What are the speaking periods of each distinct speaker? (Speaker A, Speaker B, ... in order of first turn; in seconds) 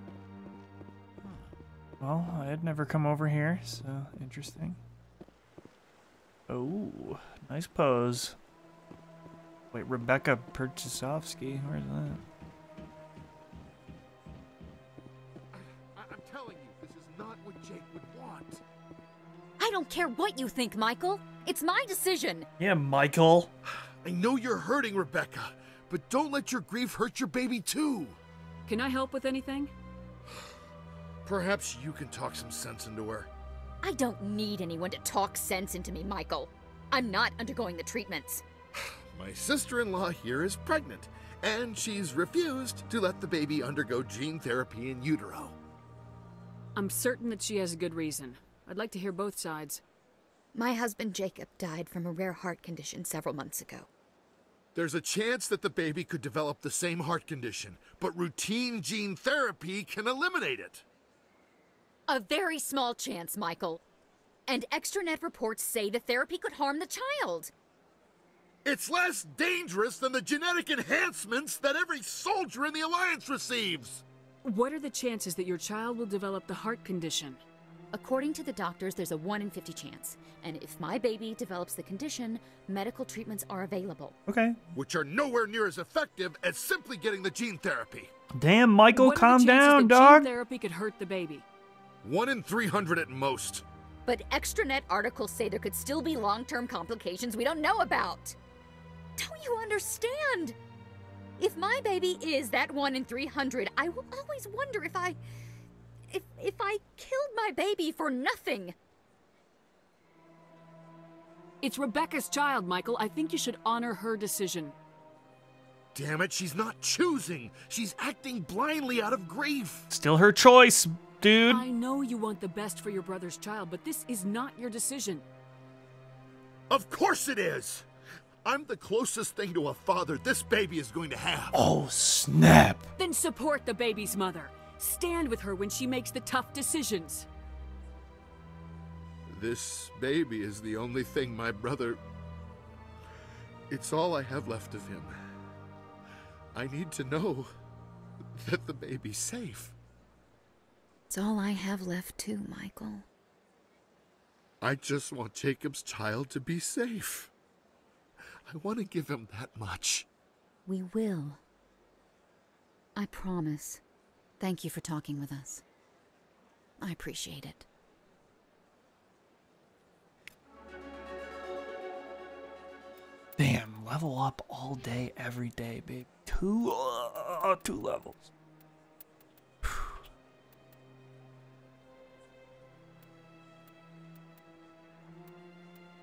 Speaker A: 2.0-4.8, 6.5-8.4, 9.7-12.2, 22.6-23.5, 84.3-84.6, 88.3-90.3, 119.9-121.6, 131.5-132.9, 173.4-178.3, 179.6-180.0
Speaker B: 15.9-18.6, 24.0-28.2, 31.2-33.3, 39.1-45.5, 54.7-60.8, 68.6-74.0, 84.7-88.1, 92.0-93.6, 115.9-119.9, 126.7-127.8, 128.4-131.6, 139.3-142.0, 143.7-145.1, 146.5-147.5, 148.3-149.7, 154.6-157.3, 158.4-160.1
Speaker C: 19.6-22.5, 33.8-38.4, 50.5-53.9, 62.1-63.8, 64.5-67.5, 77.9-84.2, 94.0-98.4, 99.2-100.6, 101.4-105.2, 106.1-108.7, 151.1-153.1, 160.7-161.4, 162.9-163.8, 164.4-165.6, 166.8-167.7
Speaker D: 28.7-29.7, 46.7-49.8, 74.4-77.4, 88.9-91.4, 111.6-114.7, 121.5-125.2, 133.0-137.3